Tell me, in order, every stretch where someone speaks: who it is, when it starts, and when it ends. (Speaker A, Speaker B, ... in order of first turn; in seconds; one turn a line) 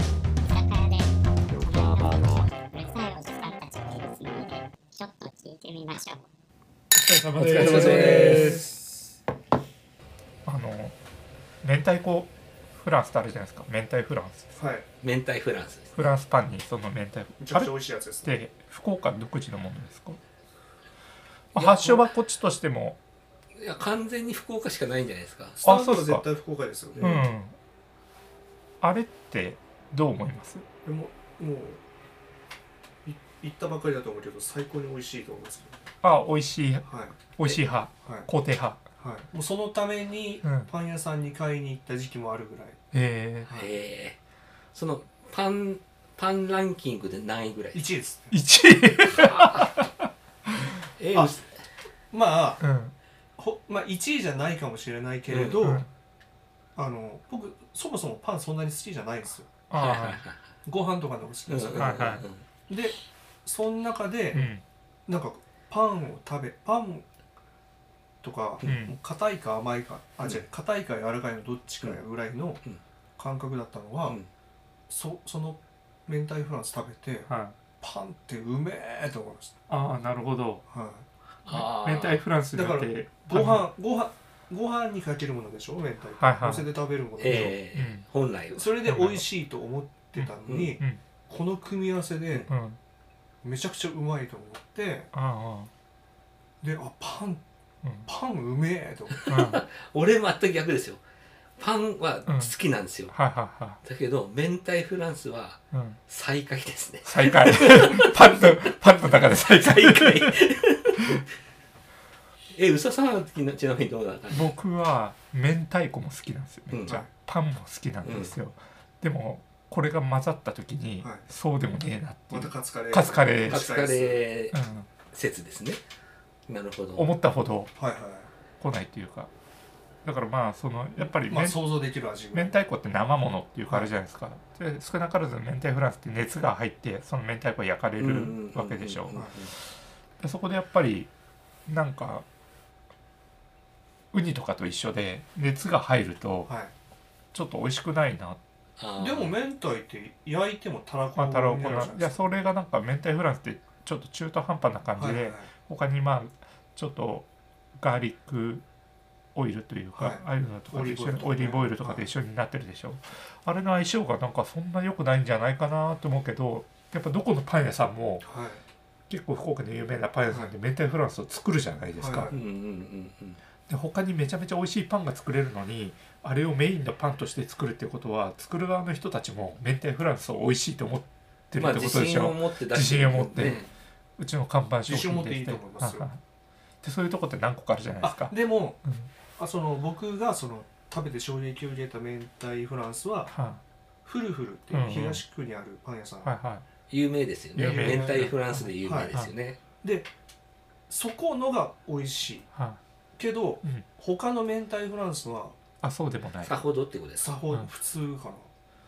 Speaker A: 0.4-6.2
Speaker B: 7.0-8.7
Speaker C: 7.4-8.6
Speaker D: 7.5-9.2
Speaker B: 10.4-11.0
Speaker B: 11.6-14.5
Speaker D: 14.6-14.8
Speaker C: 15.0-15.9
Speaker B: 15.9-17.7
Speaker D: 17.4-18.3
Speaker B: 18.2-20.2
Speaker B: 21.5-23.0
Speaker D: 21.6-22.0
Speaker C: 23.6-25.6
Speaker D: 25.6-27.3
Speaker B: 25.6-26.2
Speaker B: 27.0-27.6
Speaker B: 28.8-30.6
Speaker D: 30.8-31.8
Speaker D: 33.0-35.8
Speaker B: 36.0-38.8
Speaker D: 36.9-37.3
Speaker D: 39.0-42.8
Speaker B: 40.4-40.7
Speaker B: 42.9-43.5
Speaker D: 43.5-43.7
Speaker C: 43.5-44.2
Speaker C: 44.7-47.9
Speaker D: 47.7-48.4
Speaker B: 48.3-49.9
Speaker C: 49.1-49.7
Speaker C: 51.0-51.4
Speaker D: 52.1-52.6
Speaker B: 52.6-52.9
Speaker D: 53.4-55.8
Speaker C: 55.3-55.8
Speaker B: 55.6-55.9
Speaker D: 56.8-59.5
Speaker B: 59.7-60.2
Speaker C: 59.7-60.4
Speaker D: 60.7-64.5
Speaker C: 61.5-62.4
Speaker B: 61.8-62.2
Speaker B: 64.3-64.6
Speaker D: 65.1-67.1
Speaker D: 68.2-72.6
Speaker B: 68.7-69.0
Speaker D: 73.2-74.2
Speaker D: 74.9-79.6
Speaker B: 77.3-77.6
Speaker B: 79.7-80.6
Speaker D: 80.7-81.1
Speaker C: 81.5-82.2
Speaker B: 81.5-83.7
Speaker D: 82.5-87.5
Speaker B: 86.2-86.7
Speaker C: 87.2-88.7
Speaker B: 87.2-88.0
Speaker D: 88.5-92.5
Speaker B: 88.8-89.3
Speaker B: 90.2-91.0
Speaker C: 90.5-90.8
Speaker B: 92.5-92.8
Speaker D: 93.4-95.1
Speaker B: 95.1-95.7
Speaker D: 96.6-97.4
Speaker D: 98.0-99.3
Speaker C: 99.1-101.0
Speaker B: 99.3-99.6
Speaker C: 101.6-103.1
Speaker B: 102.3-102.5
Speaker B: 103.1-103.8
Speaker C: 103.8-108.8
Speaker B: 105.7-106.0
Speaker B: 107.0-110.4
Speaker C: 109.4-111.3
Speaker C: 112.5-114.5
Speaker B: 114.3-123.7
Speaker C: 116.7-117.0
Speaker C: 118.0-118.3
Speaker D: 121.0-121.3
Speaker D: 122.3-124.2
Speaker C: 123.5-124.6
Speaker B: 124.5-124.9
Speaker C: 125.1-125.8
Speaker C: 126.5-127.1
Speaker B: 127.0-127.7
Speaker D: 127.8-128.3
Speaker B: 128.6-129.3
Speaker B: 130.0-131.6
Speaker D: 131.0-132.6
Speaker B: 132.3-139.2
Speaker C: 138.0-139.5
Speaker B: 140.2-141.1
Speaker B: 141.7-142.3
Speaker B: 144.1-146.5
Speaker D: 146.5-146.7
Speaker B: 147.3-148.4
Speaker C: 148.8-149.3
Speaker D: 149.0-152.2
Speaker B: 151.2-158.7
Speaker D: 155.0-155.5
Speaker B: 159.3-168.2
Speaker D: 160.0-162.1
Speaker D: 168.2-168.6
Speaker B: 169.1-172.4
Speaker D: 172.0-172.3
Speaker C: 172.3-173.4
Speaker B: 173.7-183.6
Speaker C: 181.6-183.7
Speaker B: 184.2-186.2
Speaker D: 184.9-186.1
Speaker B: 186.8-189.1
Speaker D: 188.0-188.8
Speaker D: 189.4-193.3
Speaker B: 193.3-193.6
Speaker D: 194.1-196.3
Speaker B: 194.7-195.2
Speaker B: 196.2-196.7
Speaker C: 196.9-199.6
Speaker B: 197.6-199.3
Speaker D: 197.6-198.3
Speaker D: 198.8-199.1
Speaker D: 199.8-200.1
Speaker D: 200.9-202.5
Speaker B: 202.6-202.8
Speaker D: 203.2-205.6
Speaker B: 205.8-206.6
Speaker C: 206.4-207.3
Speaker D: 207.2-208.5